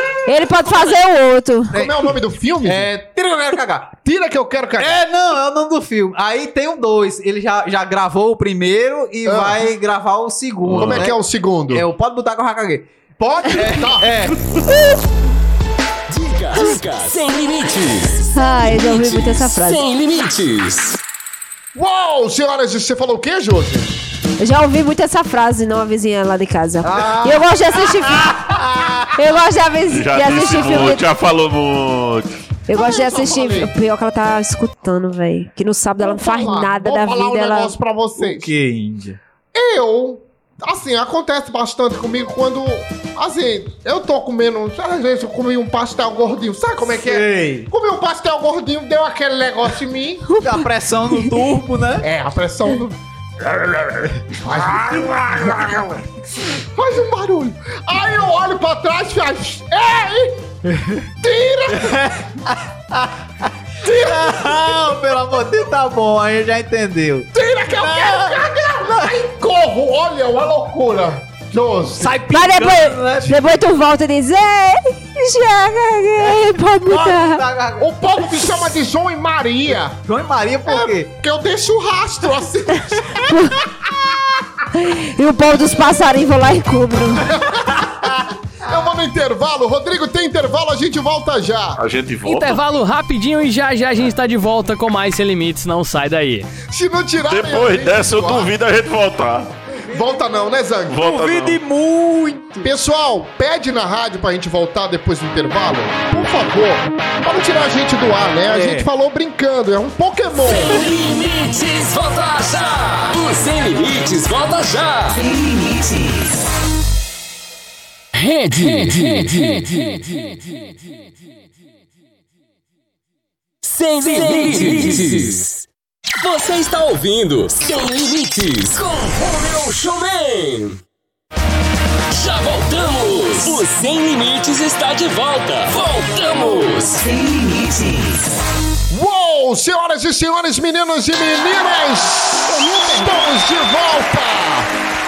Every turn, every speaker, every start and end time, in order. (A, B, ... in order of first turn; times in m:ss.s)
0:00.2-0:01.7 A
0:01.7-0:02.9 B
0:01.7-0:03.9 C
0:04.0-0:05.0 B
0:04.8-0:11.2 C
0:09.2-0:09.6 B
0:10.7-0:11.1 D
0:10.8-0:11.8 B
0:11.7-0:12.9 C
0:13.2-0:14.1 B
0:13.5-0:14.5 C
0:16.1-0:21.0 E
0:18.3-0:19.8 A
0:21.7-0:23.9 B
0:24.4-0:28.3 A
0:26.8-0:27.5 C
0:28.2-0:28.9 B
0:28.3-0:28.9 C
0:29.1-0:31.0 A
0:29.9-0:32.3 D
0:32.7-0:37.7 A
0:32.7-0:33.7 B
0:36.0-0:38.5 B
0:38.2-0:39.2 C
0:39.5-0:50.2 B
0:46.8-0:47.7 C
0:50.4-0:52.0 C
0:52.0-1:00.5 B
0:54.5-0:54.7 C
1:00.7-1:01.0 C
1:01.2-1:02.1 B
1:01.7-1:03.2 C
1:03.8-1:05.0 B
1:03.8-1:09.1 C
1:07.3-1:12.1 B
1:12.0-1:13.6 C
1:12.3-1:17.4 A
1:16.2-1:17.9 C
1:17.8-1:20.0 B
1:19.7-1:21.1 C
1:20.7-1:24.1 B
1:23.3-1:23.5 A
1:24.7-1:27.3 A
1:27.3-1:31.8 B
1:31.8-1:32.6 D
1:32.2-1:36.5 F
1:36.6-1:38.5 B
1:37.3-1:39.5 D
1:39.8-1:41.0 B
1:39.9-1:40.2 C
1:40.9-1:41.6 D
1:41.0-1:42.7 C
1:42.6-1:50.8 B
1:48.4-1:48.9 C
1:50.4-1:55.2 E
1:58.1-2:00.4 E
2:03.6-2:05.6 E
2:06.2-2:10.8 E
2:12.1-2:17.0 E
2:18.9-2:24.7 B